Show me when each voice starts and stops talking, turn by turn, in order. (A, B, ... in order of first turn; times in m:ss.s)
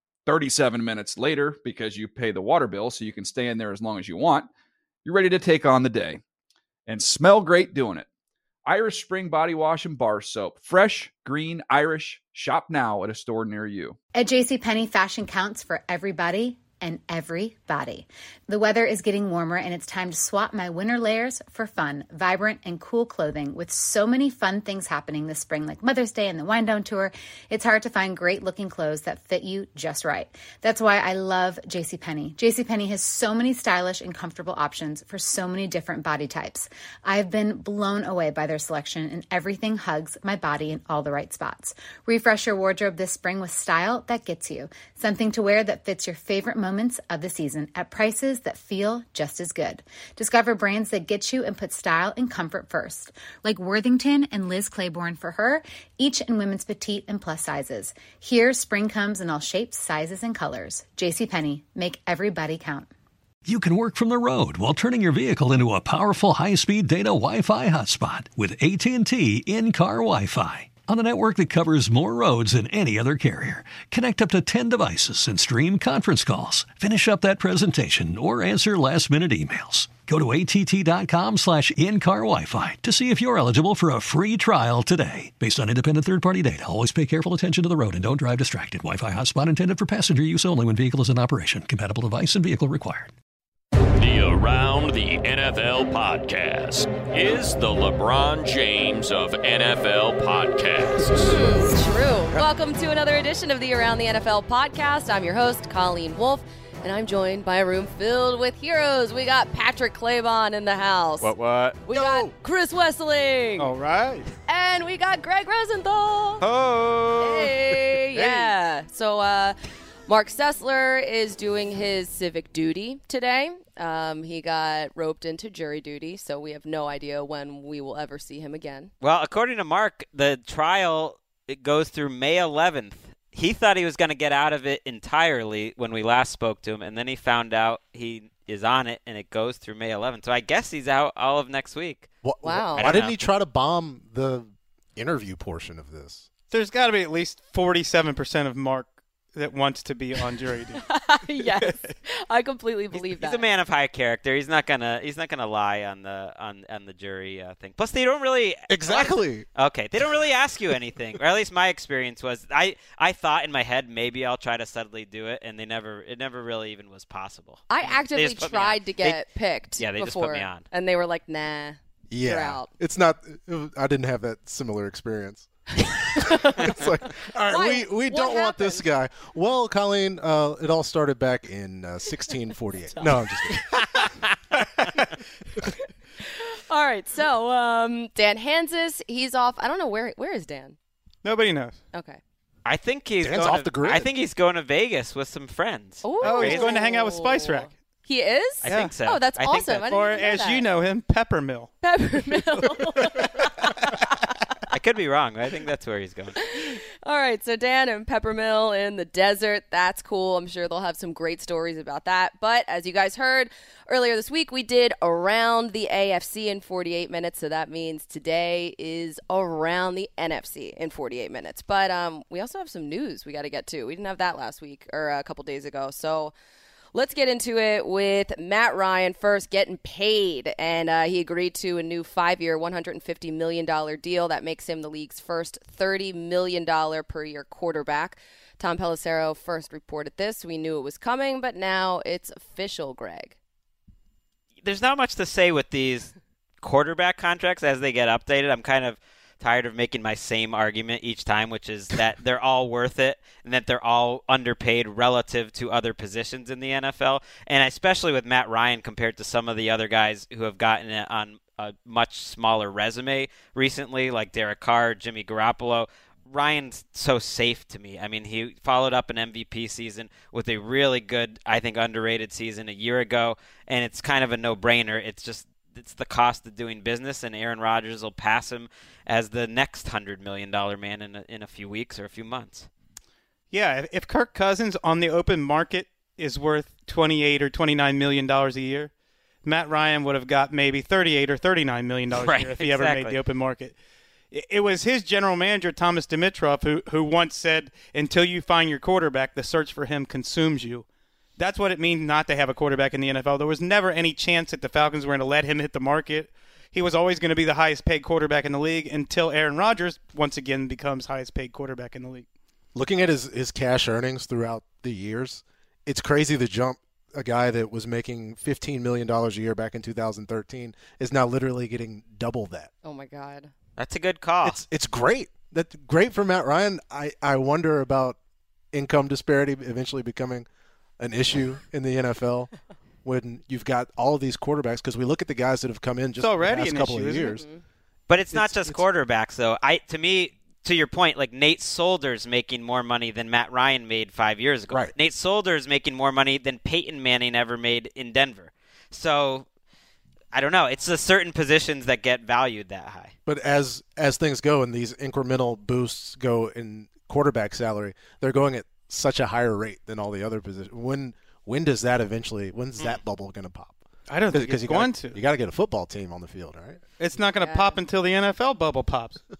0:00.2-0:04.5 A
0:05.0-0:06.2 A
0:06.8-0:08.0 A
0:08.6-0:14.0 A
0:14.2-1:02.9 B
1:03.4-1:33.1 C
1:34.0-1:41.4 D
1:41.2-1:51.3 E
1:51.2-1:51.8 F
1:51.8-1:53.7 E
1:51.9-1:52.3 G
1:53.6-1:54.3 F
1:54.5-1:56.4 E
1:56.8-1:57.5 H
1:57.2-2:08.9 E
2:09.0-2:22.1 H
2:22.2-2:26.3 G
2:22.4-2:22.8 E
2:22.7-2:23.1 H
2:26.5-2:30.8 F
2:30.8-2:33.4 E
2:32.9-2:49.2 H
2:38.7-2:39.4 G
2:47.7-2:52.7 E
2:49.8-2:50.6 H
2:52.1-2:55.5 G
2:55.8-2:56.9 E
2:56.6-3:03.9 G
2:57.5-2:58.9 E
3:02.9-3:04.1 E
3:05.6-3:10.8 E
3:11.2-3:11.8 F
3:11.9-3:12.2 E
3:12.6-3:16.7 H
3:13.2-3:14.1 G
3:16.0-3:20.6 E
3:16.2-3:17.7 F
3:18.6-3:20.3 H
3:18.7-3:18.9 F
3:19.8-3:21.7 F
3:21.8-3:24.2 E
3:24.7-3:26.4 H
3:26.4-3:46.3 E
3:46.9-4:03.4 E
4:04.6-4:42.7 H
4:43.5-4:48.9 F
4:49.4-4:53.8 F
4:52.1-4:53.2 H
4:54.3-5:00.8 F
5:01.4-5:12.2 F
5:12.7-5:22.7 G
5:22.8-5:23.5 E
5:23.8-5:24.6 H
5:24.4-5:28.2 G
5:28.7-5:30.4 G
5:31.0-5:32.5 G
5:33.0-5:37.4 G
5:36.2-5:37.4 F
5:38.1-5:49.4 H
5:38.3-5:38.8 G
5:50.3-5:53.1 H
5:53.2-6:06.8 G
6:04.1-6:05.2 F
6:07.0-6:09.2 F
6:07.4-6:07.8 E